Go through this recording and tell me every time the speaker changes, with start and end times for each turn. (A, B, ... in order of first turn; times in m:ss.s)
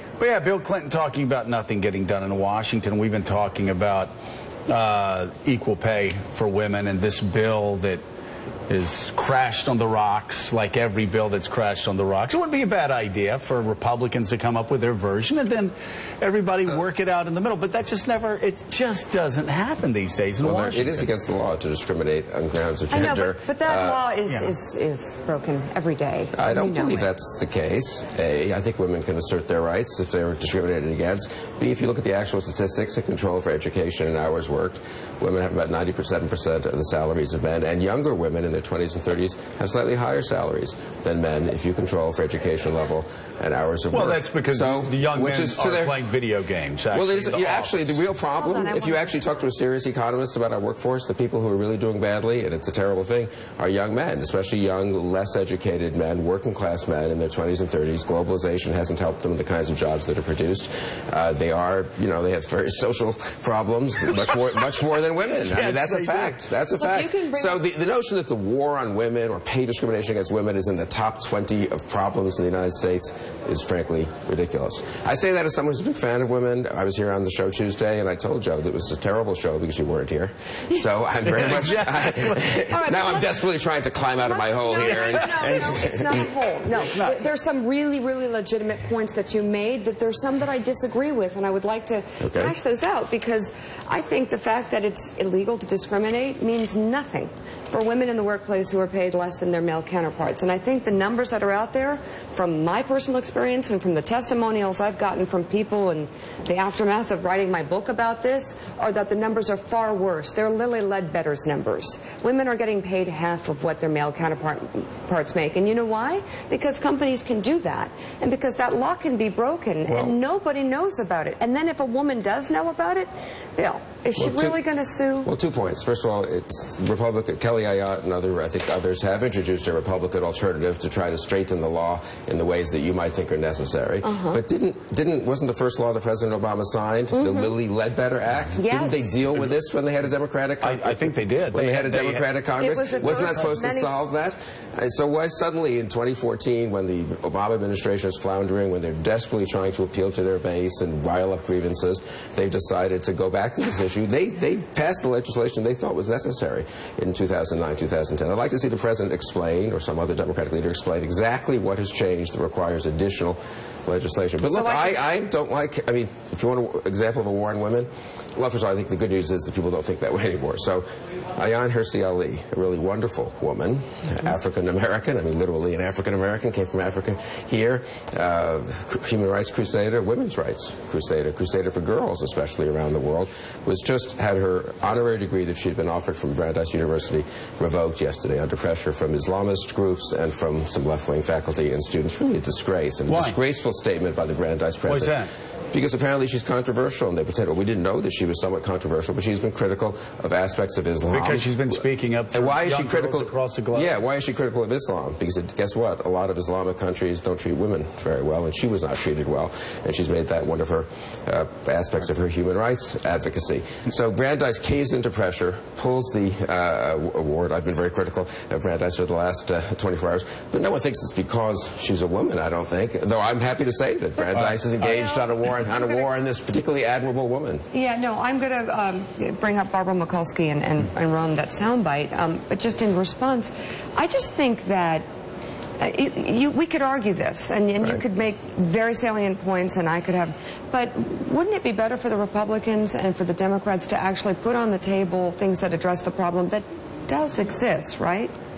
0:00.2-0:04.1 A
0:04.7-0:08.0 A
0:08.7-0:21.1 A
0:20.4-0:24.0 B
0:22.9-0:27.1 C
0:26.3-0:46.0 B
0:43.9-0:48.0 A
0:46.9-1:26.3 B
0:48.4-0:49.2 C
1:05.4-1:06.4 A
1:06.8-1:07.6 C
1:21.3-1:22.6 A
1:22.7-1:23.4 C
1:24.2-2:05.3 C
1:25.0-1:25.8 A
1:26.8-1:27.2 A
1:32.2-1:32.6 B
1:59.9-2:00.2 B
2:04.2-2:04.6 B
2:05.2-3:15.2 B
2:14.0-2:14.4 C
2:17.1-2:17.6 C
2:18.6-2:19.2 C
2:20.6-2:22.3 A
2:22.6-2:24.0 C
2:44.5-2:45.0 C
3:13.1-3:13.4 A
3:14.8-3:15.3 A
3:15.7-3:21.6 B
3:21.1-3:23.9 A
3:22.3-3:47.6 B
3:44.3-3:44.9 A
3:44.4-3:46.1 C
3:47.7-3:55.0 C
3:55.8-4:08.3 C